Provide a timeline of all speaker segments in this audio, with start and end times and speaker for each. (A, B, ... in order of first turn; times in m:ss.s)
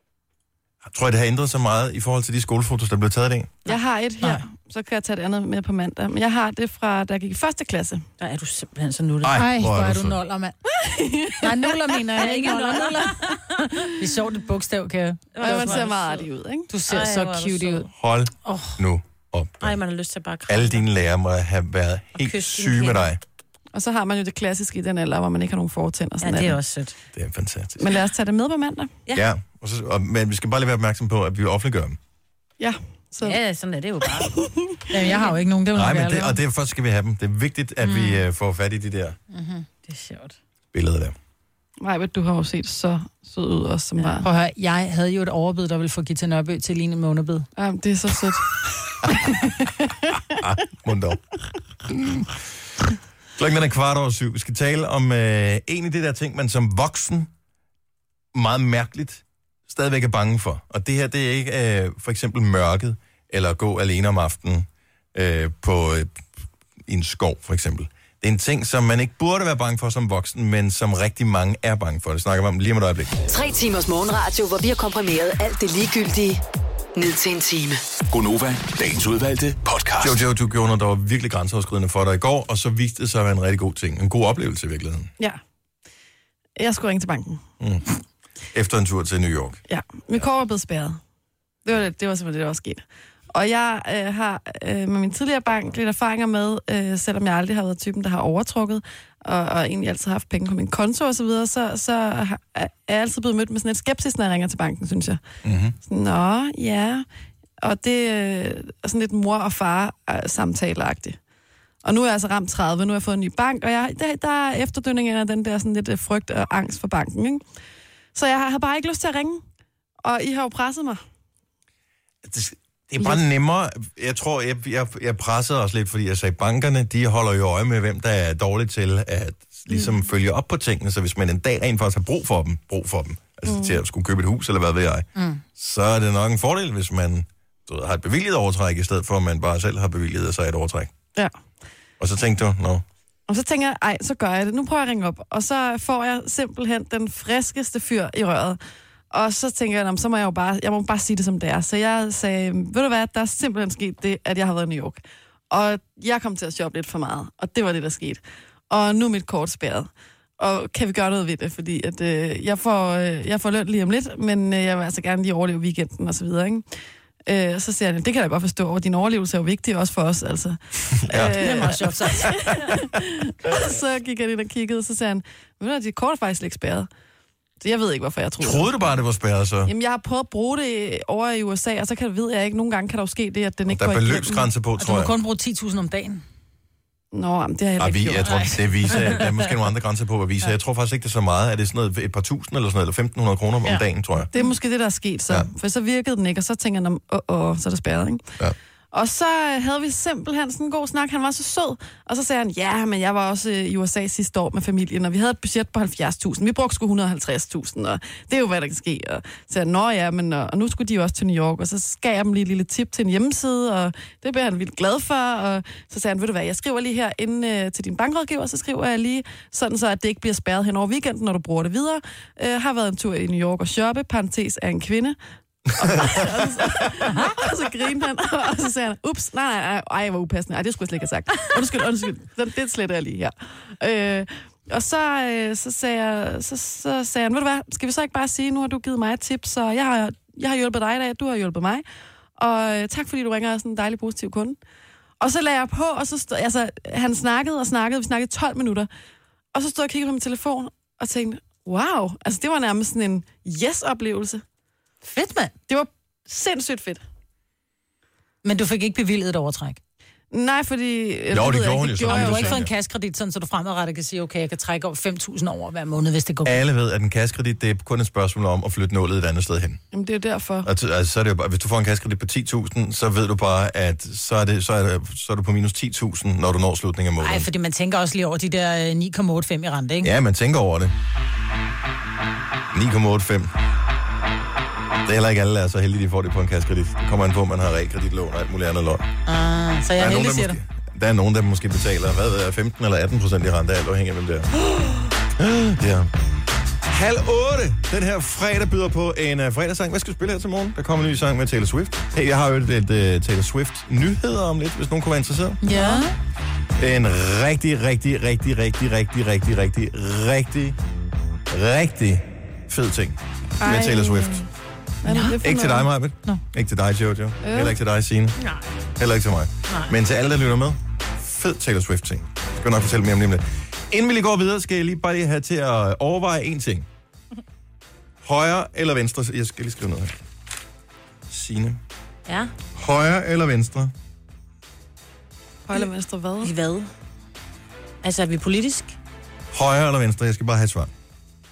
0:00.8-0:03.6 A
0:03.6-0:08.0 B
0:08.2-0:09.4 C
0:09.2-0:10.2 A
0:09.3-0:10.6 D
0:10.8-0:11.7 B
0:11.3-0:15.8 D
0:12.2-0:13.9 C
0:15.3-0:16.3 C
0:15.4-0:16.7 B
0:16.7-0:17.9 D
0:16.9-0:17.9 C
0:18.0-0:19.8 A
0:18.4-0:18.8 D
0:19.6-0:20.8 C
0:20.5-0:23.2 A
0:22.2-0:23.1 C
0:23.7-0:26.6 B
0:26.2-0:27.0 C
0:27.1-0:27.9 A
0:27.8-0:28.9 B
0:29.1-0:32.0 A
0:32.6-0:33.4 B
0:33.2-0:34.5 C
0:34.0-0:34.8 B
0:34.9-0:36.4 D
0:35.1-0:35.3 C
0:35.7-0:39.2 A
0:37.8-0:38.2 D
0:39.3-0:39.7 D
0:39.8-0:40.4 C
0:40.7-0:41.1 A
0:41.8-0:44.3 B
0:44.2-0:47.5 D
0:47.6-0:50.2 B
0:50.3-0:51.2 A
0:51.8-0:52.4 A
0:53.4-0:57.3 A
0:58.3-1:06.2 A
1:06.8-1:13.2 A
1:13.2-1:16.4 E
1:16.9-1:17.8 E
1:18.1-1:20.2 F
1:20.0-1:25.1 A
1:26.6-1:27.4 B
1:27.6-1:27.8 A
1:28.5-1:29.6 A
1:29.7-1:31.0 B
1:31.6-1:45.2 B
1:45.4-1:45.8 A
1:45.8-1:47.0 B
1:47.6-1:51.2 B
1:51.8-1:57.4 B
1:58.1-1:59.4 B
2:00.0-2:01.0 B
2:02.2-2:20.9 A
2:13.4-2:13.8 B
2:15.2-2:15.4 D
2:22.0-2:22.8 A
2:23.3-2:28.6 B
2:29.1-2:46.6 B
2:47.2-2:56.9 B
2:51.0-2:51.7 A
2:51.4-2:52.8 C
2:53.4-2:53.7 A
2:57.6-2:58.7 B
2:58.4-2:59.7 A
2:59.6-3:04.5 B
3:03.7-3:05.1 A
3:04.8-3:06.2 D
3:07.1-3:09.0 B
3:07.8-3:14.3 A
3:14.3-3:18.3 B
3:18.9-4:01.8 B
3:45.9-3:46.3 A
4:02.4-4:04.6 B
4:05.2-4:08.9 B
4:09.5-4:14.4 B
4:15.0-4:15.5 D
4:15.7-4:17.0 B
4:18.4-4:19.8 D
4:20.3-4:22.6 B
4:21.3-4:22.7 A
4:22.0-4:26.6 D
4:26.4-4:29.8 A
4:29.9-4:30.7 B
4:30.6-4:37.5 A
4:37.2-4:40.1 D
4:40.0-4:40.9 A
4:42.7-4:43.5 A
4:45.0-4:49.1 A
4:49.2-4:50.6 D
4:50.0-4:54.5 A
4:55.4-4:56.1 A
4:56.8-5:05.6 A
5:05.6-5:06.2 D
5:05.7-5:06.1 B
5:06.8-5:10.8 A
5:11.5-5:14.4 A
5:13.6-5:14.5 B
5:15.0-5:15.9 B
5:15.1-5:15.4 D
5:15.4-5:18.4 A
5:17.4-5:17.7 B
5:18.4-5:18.6 C
5:19.0-5:26.9 A
5:19.7-5:20.0 C
5:28.2-5:30.2 A
5:31.3-5:31.8 A
5:32.3-5:32.5 C
5:32.8-5:33.9 A
5:35.7-5:36.5 B
5:36.4-5:36.9 C
5:38.0-5:39.0 C
5:39.5-5:40.9 A